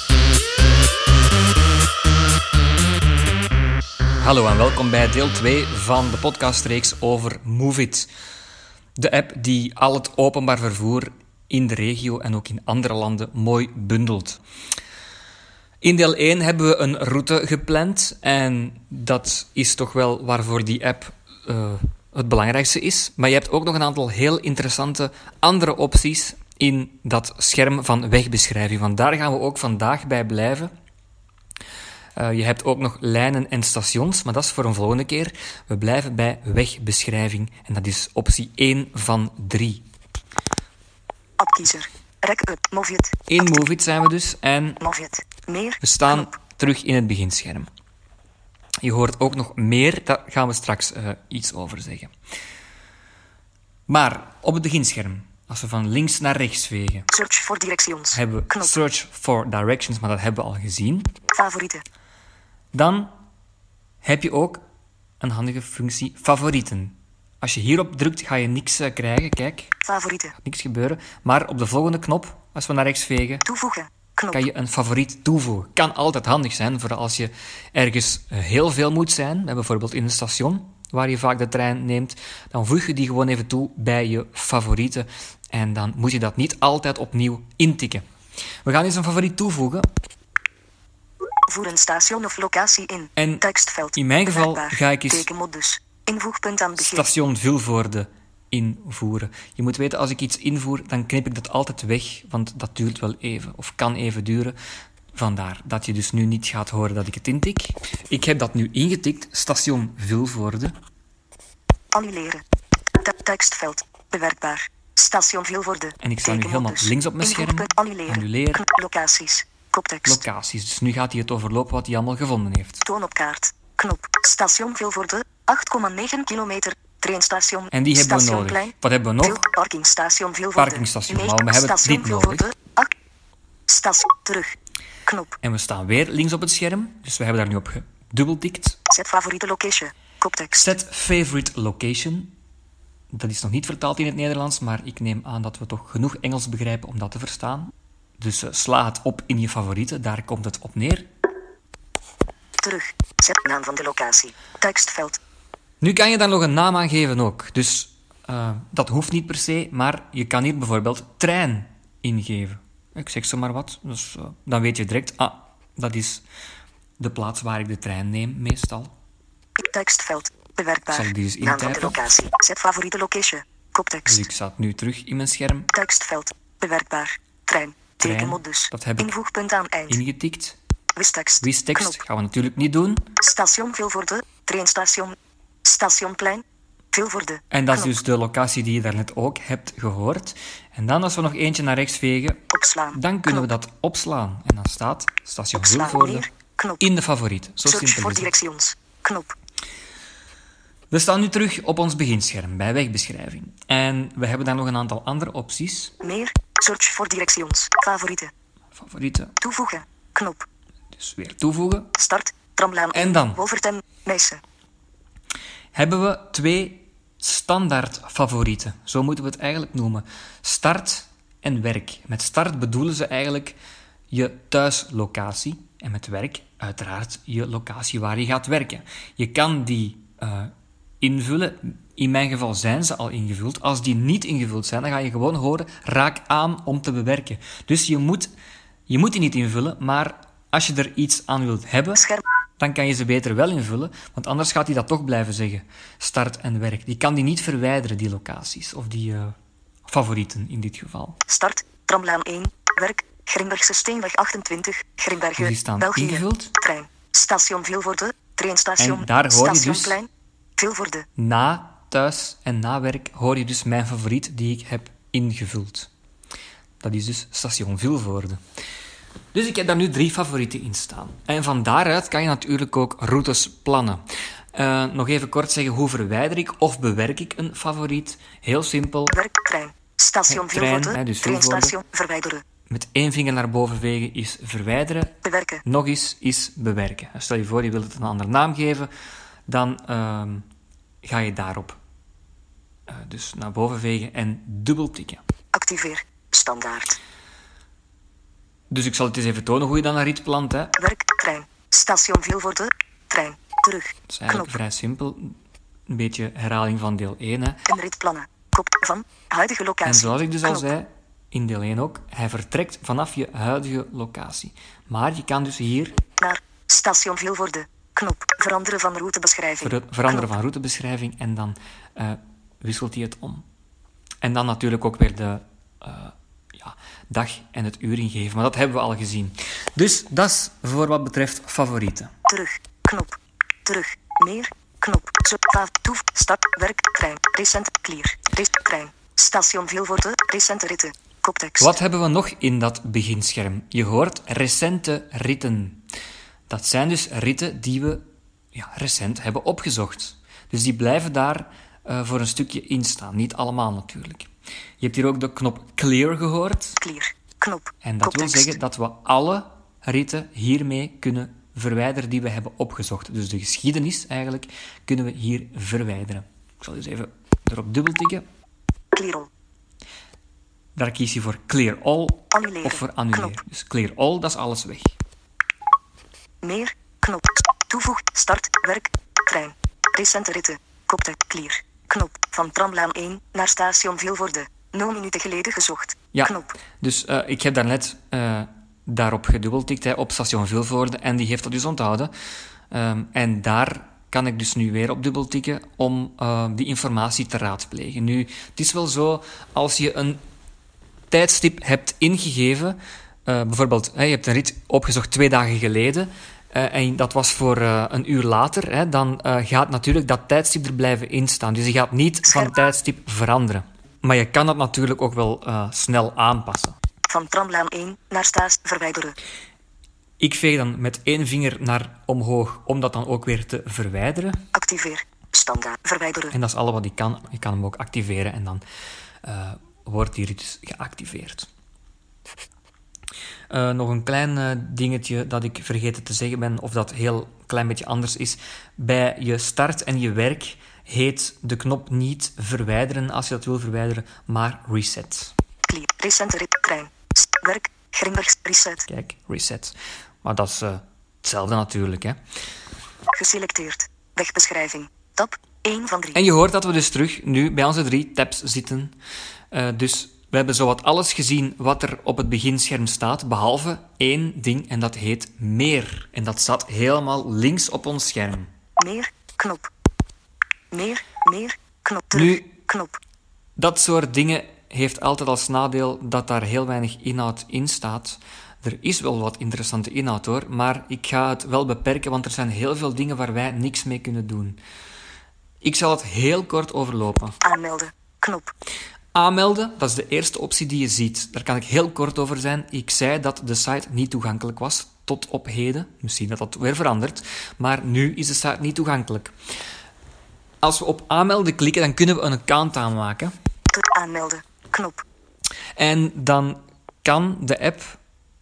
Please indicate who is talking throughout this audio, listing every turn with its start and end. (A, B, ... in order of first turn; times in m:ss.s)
0:04.2-0:08.1 A
0:09.0-0:14.4 A
0:15.8-0:30.7 A
0:32.2-0:39.8 A
0:41.4-0:43.4 B
0:43.3-0:44.8 A
0:44.8-0:46.3 B
0:45.8-0:47.7 A
0:48.8-0:52.1 A
0:53.9-0:57.1 A
0:57.1-0:58.8 B
0:58.1-1:01.1 A
1:01.3-1:01.8 B
1:02.7-1:03.1 A
1:04.0-1:04.6 A
1:05.2-1:09.7 A
1:09.8-1:10.4 B
1:10.4-1:13.5 A
1:13.5-1:14.5 B
1:14.3-1:28.0 A
1:28.6-1:29.9 A
1:31.5-1:37.1 B
1:33.2-1:35.3 A
1:36.8-1:44.6 A
1:45.1-1:50.7 A
1:51.9-1:52.4 B
1:53.0-2:00.2 B
1:56.0-1:58.6 A
2:00.1-2:02.8 A
2:02.8-2:12.9 B
2:07.7-2:09.4 A
2:10.6-2:12.5 A
2:13.7-2:15.4 B
2:15.4-2:18.8 A
2:18.9-2:20.7 B
2:20.6-2:22.3 A
2:23.1-2:31.1 A
2:32.6-2:35.2 B
2:35.8-2:46.2 A
2:47.0-2:48.9 A
2:49.6-2:54.2 B
2:50.9-2:52.0 A
2:54.1-2:55.7 A
2:55.7-3:00.0 B
2:58.0-2:59.1 A
2:59.9-3:00.6 A
3:01.0-3:02.0 B
3:01.4-3:03.1 A
3:03.2-3:08.0 B
3:07.5-3:16.3 A
3:12.5-3:13.5 B
3:15.5-3:16.8 B
3:16.8-3:18.3 A
3:17.7-3:19.3 B
3:20.9-3:25.9 A
3:26.0-3:28.3 B
3:28.8-3:29.3 A
3:29.4-3:30.4 B
3:30.9-3:31.9 A
3:31.9-3:34.4 B
3:32.9-3:33.4 A
3:35.7-3:43.6 A
3:44.1-3:58.3 A
3:58.9-4:02.0 A
4:01.9-4:02.2 B
4:02.6-4:09.3 A
4:09.9-4:11.2 A
4:11.3-4:21.1 B
4:15.4-4:16.5 A
4:18.8-4:20.0 A
4:21.2-4:25.9 A
4:26.8-4:28.4 A
4:29.3-4:39.2 A
4:39.1-4:42.4 B
4:40.3-4:41.8 A
4:42.7-4:48.9 A
4:45.2-4:45.6 B
4:49.5-4:50.4 A
4:51.0-4:51.8 A
4:52.9-4:55.2 A
4:55.5-4:57.0 B
4:58.7-5:00.8 A
5:00.8-5:04.5 B
5:04.1-5:05.3 A
5:05.9-5:07.7 A
5:07.7-5:10.7 B
5:09.8-5:16.0 A
5:16.2-5:20.3 B
5:19.6-5:23.4 A
5:24.2-5:32.1 A
5:32.3-5:41.8 B
5:41.6-5:45.8 A
5:46.5-5:48.0 A
5:48.5-5:56.8 A
5:56.8-5:58.6 B
5:57.8-6:08.2 A
6:08.9-6:09.3 B
6:10.8-6:15.0 A
6:12.3-6:13.4 B
6:16.4-6:26.5 B
6:26.1-6:32.1 A
6:32.7-6:40.2 A
6:41.1-6:56.8 A
6:52.2-6:52.6 B
6:57.1-6:59.2 B
7:00.2-7:04.4 A
7:04.5-7:06.3 B
7:06.3-7:08.6 A
7:09.2-7:11.5 A
7:13.5-7:25.3 A
7:25.6-7:28.9 B
7:28.9-7:32.2 A
7:33.1-7:36.2 B
7:36.1-7:39.0 A
7:39.5-7:48.5 A
7:48.8-7:49.7 B
7:50.7-7:53.0 B
7:52.1-7:52.5 A
7:53.6-8:04.6 A
8:05.6-8:07.4 A
8:07.4-8:08.5 B
8:09.1-8:19.3 A
8:20.6-8:23.3 A
8:23.7-8:25.0 B
8:25.8-8:28.0 A